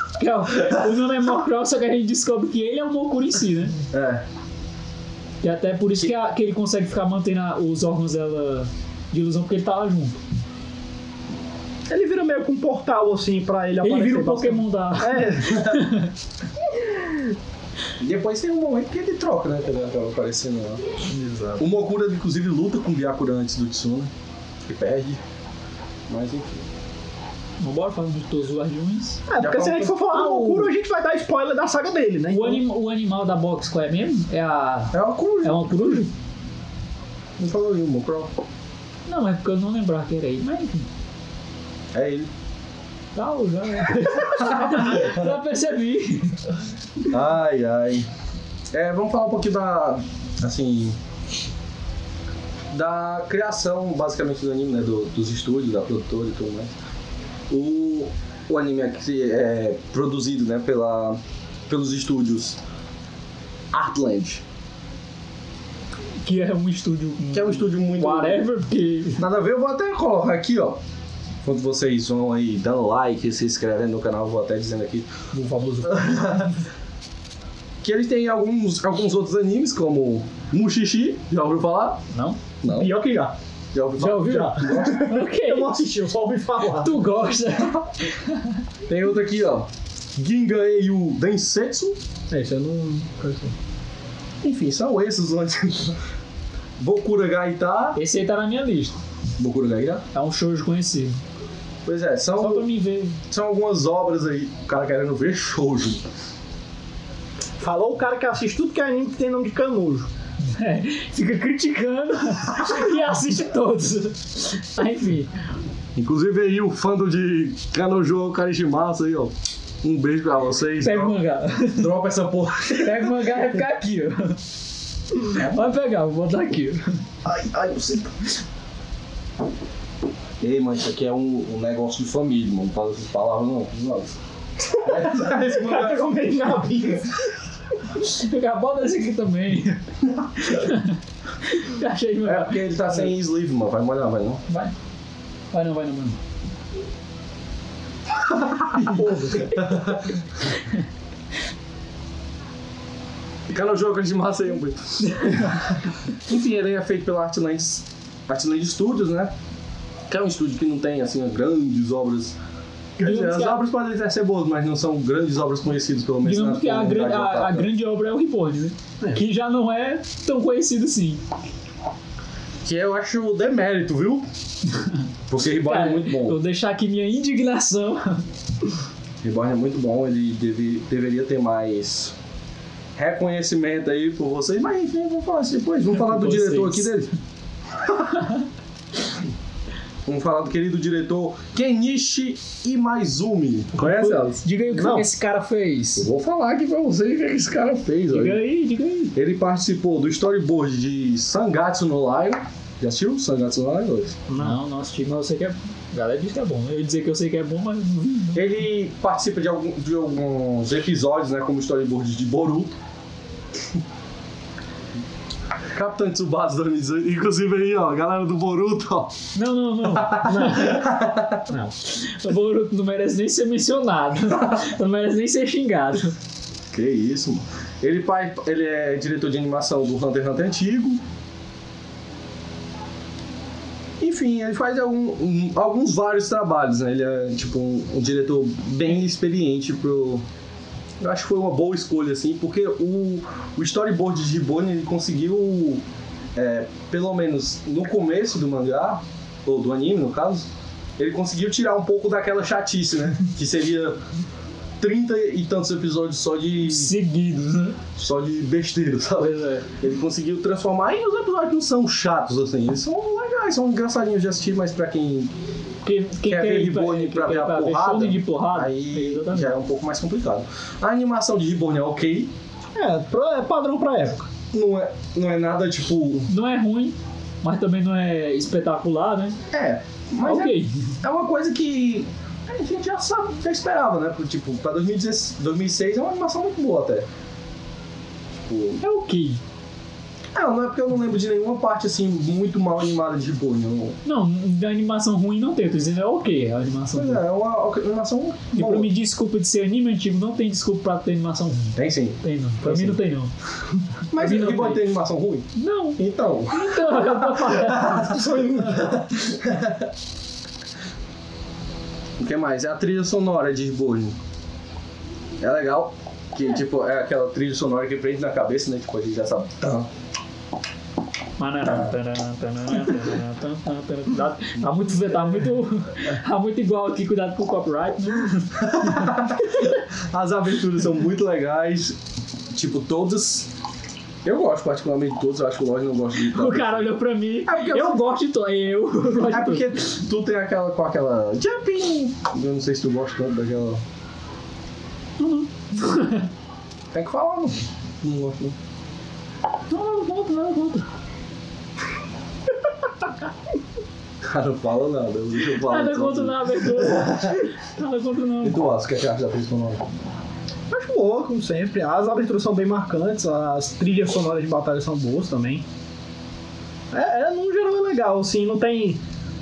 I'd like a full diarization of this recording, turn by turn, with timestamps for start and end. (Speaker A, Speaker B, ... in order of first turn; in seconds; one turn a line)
Speaker A: 0.2-3.8
Speaker B: 3.9-4.2
Speaker A: 5.4-10.2
Speaker C: 11.9-15.8
Speaker A: 13.8-16.1
Speaker B: 15.5-15.8
Speaker B: 18.0-20.8
Speaker C: 21.1-21.6
Speaker B: 21.6-24.1
Speaker B: 24.7-25.2
Speaker B: 26.1-26.6
Speaker A: 27.6-29.2
Speaker C: 29.3-32.6
Speaker B: 29.4-29.9
Speaker A: 30.0-30.7
Speaker A: 32.3-36.1
Speaker B: 34.9-36.0
Speaker B: 37.4-38.3
Speaker A: 39.1-40.9
Speaker B: 41.9-42.3
Speaker A: 43.1-46.5
Speaker B: 44.5-45.2
Speaker B: 47.1-48.1
Speaker B: 48.7-51.0
Speaker B: 52.7-56.7
Speaker B: 57.5-62.6
Speaker B: 63.7-64.4
Speaker A: 66.2-69.2
Speaker B: 67.3-68.4
Speaker B: 69.2-70.8
Speaker B: 71.5-75.1
Speaker A: 75.4-75.9
Speaker B: 75.8-76.5
Speaker B: 77.8-82.0
Speaker A: 82.1-82.4
Speaker B: 82.6-82.9
Speaker C: 82.7-83.3
Speaker B: 83.7-85.1
Speaker A: 84.0-85.7
Speaker C: 84.2-87.0
Speaker A: 86.7-88.6
Speaker B: 88.9-92.0
Speaker C: 92.3-93.5
Speaker B: 94.4-96.0
Speaker B: 96.8-98.0
Speaker A: 98.0-99.0
Speaker B: 99.4-100.0
Speaker A: 100.1-101.2
Speaker B: 101.9-102.7
Speaker A: 102.4-103.2
Speaker B: 103.3-106.0
Speaker C: 107.6-110.1
Speaker A: 110.4-115.3
Speaker B: 116.0-121.2
Speaker A: 120.8-121.9
Speaker B: 121.7-123.3
Speaker A: 122.7-124.4
Speaker A: 125.3-127.0
Speaker B: 125.3-125.7
Speaker B: 127.2-128.2
Speaker B: 130.4-134.2
Speaker B: 134.7-136.1
Speaker C: 134.8-137.3
Speaker A: 137.9-139.8
Speaker A: 140.3-143.1
Speaker B: 142.2-144.4
Speaker A: 144.5-144.8
Speaker A: 145.5-146.2
Speaker B: 148.3-150.2
Speaker C: 148.8-149.7
Speaker A: 150.5-150.8
Speaker B: 153.5-159.3
Speaker B: 160.1-162.3
Speaker A: 163.0-163.6
Speaker B: 163.0-167.7
Speaker A: 166.2-171.2
Speaker B: 172.7-174.3
Speaker A: 174.7-178.3
Speaker B: 175.3-176.4
Speaker B: 179.2-182.2
Speaker B: 183.0-187.1
Speaker A: 185.9-186.9
Speaker B: 190.1-194.4
Speaker A: 193.8-196.1
Speaker C: 194.7-195.1
Speaker B: 196.0-198.4
Speaker A: 198.1-199.1
Speaker B: 199.1-204.2
Speaker C: 204.3-204.6
Speaker A: 204.4-208.5
Speaker B: 208.3-212.8
Speaker B: 215.7-219.3
Speaker A: 219.3-220.8
Speaker B: 219.9-221.4
Speaker C: 220.3-220.6
Speaker C: 221.5-221.7
Speaker A: 221.8-226.2
Speaker B: 226.7-231.0
Speaker B: 234.0-240.2
Speaker B: 241.0-245.8
Speaker B: 246.4-254.0
Speaker B: 254.8-256.9
Speaker A: 256.7-257.8
Speaker B: 258.0-265.3
Speaker A: 259.2-259.7
Speaker A: 265.8-269.5
Speaker B: 266.2-272.3
Speaker C: 272.8-274.3
Speaker B: 274.5-276.3
Speaker A: 276.3-279.4
Speaker B: 279.5-287.1
Speaker A: 280.2-280.9
Speaker B: 288.4-288.8
Speaker A: 288.8-289.4
Speaker B: 290.4-294.0
Speaker A: 294.1-297.2
Speaker B: 296.9-298.9
Speaker A: 298.5-303.3
Speaker B: 301.8-303.0
Speaker B: 304.1-309.9
Speaker A: 304.1-304.9
Speaker A: 305.6-308.2
Speaker C: 307.9-309.0
Speaker B: 312.2-314.1
Speaker B: 315.4-319.9
Speaker A: 321.4-328.5
Speaker B: 328.6-332.0
Speaker B: 332.5-333.5
Speaker B: 334.2-336.9
Speaker A: 336.2-339.7
Speaker B: 337.4-338.0
Speaker B: 339.2-343.8
Speaker A: 345.2-346.3
Speaker B: 346.9-348.6
Speaker A: 349.7-350.9
Speaker B: 354.2-357.4
Speaker A: 355.4-358.7
Speaker B: 358.4-359.9
Speaker C: 360.7-365.6
Speaker C: 366.9-369.0